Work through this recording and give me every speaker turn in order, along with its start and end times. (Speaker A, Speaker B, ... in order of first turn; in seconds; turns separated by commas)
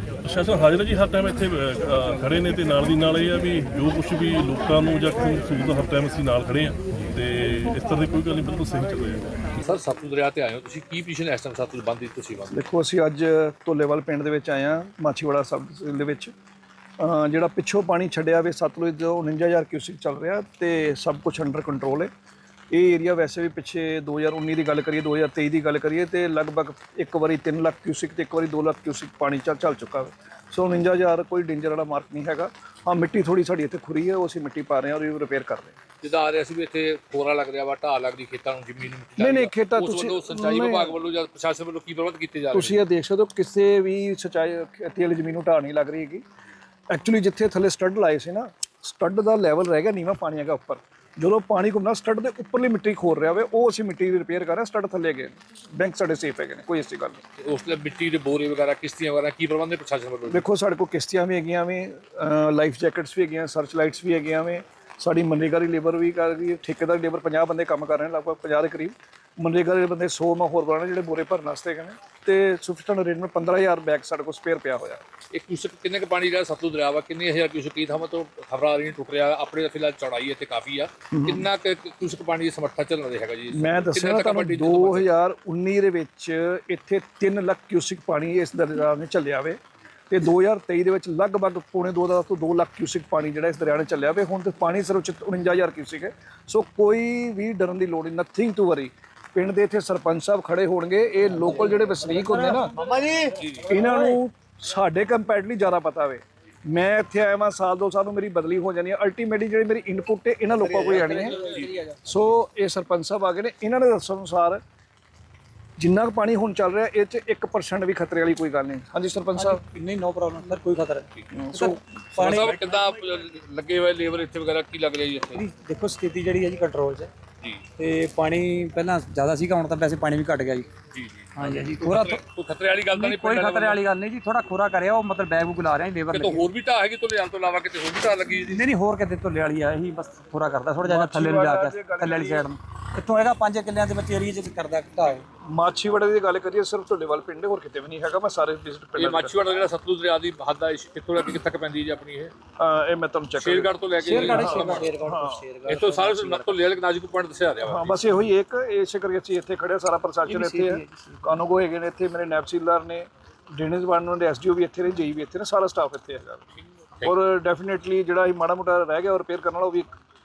Speaker A: 0.2-9.3, Speaker B: 9.6-12.5, Speaker C: 12.5-16.3, Speaker C: 17.0-22.1, Speaker C: 22.7-35.8, Speaker B: 36.0-42.8, Speaker C: 39.2-41.0, Speaker C: 42.5-46.2, Speaker C: 46.9-57.2, Speaker B: 57.4-60.5, Speaker C: 60.3-75.0, Speaker B: 75.3-85.1, Speaker C: 81.1-81.5, Speaker C: 83.5-89.6, Speaker C: 90.1-102.7, Speaker D: 101.4-103.3, Speaker B: 103.4-103.8, Speaker C: 103.7-111.4, Speaker D: 110.6-111.9, Speaker B: 111.2-111.8, Speaker C: 112.0-114.6, Speaker C: 115.8-119.6, Speaker D: 119.3-122.6, Speaker C: 121.3-121.8, Speaker B: 121.6-125.5, Speaker D: 125.3-127.1, Speaker D: 127.8-130.7, Speaker B: 130.9-133.9, Speaker D: 131.4-132.2, Speaker D: 132.9-136.4, Speaker B: 136.1-138.7, Speaker D: 138.5-145.2, Speaker C: 140.8-142.5, Speaker C: 145.5-149.4, Speaker B: 148.9-152.3, Speaker C: 152.6-155.5, Speaker B: 153.4-155.1, Speaker D: 154.0-156.5, Speaker B: 155.7-158.0, Speaker C: 157.7-166.4, Speaker D: 160.3-161.3, Speaker C: 167.1-169.9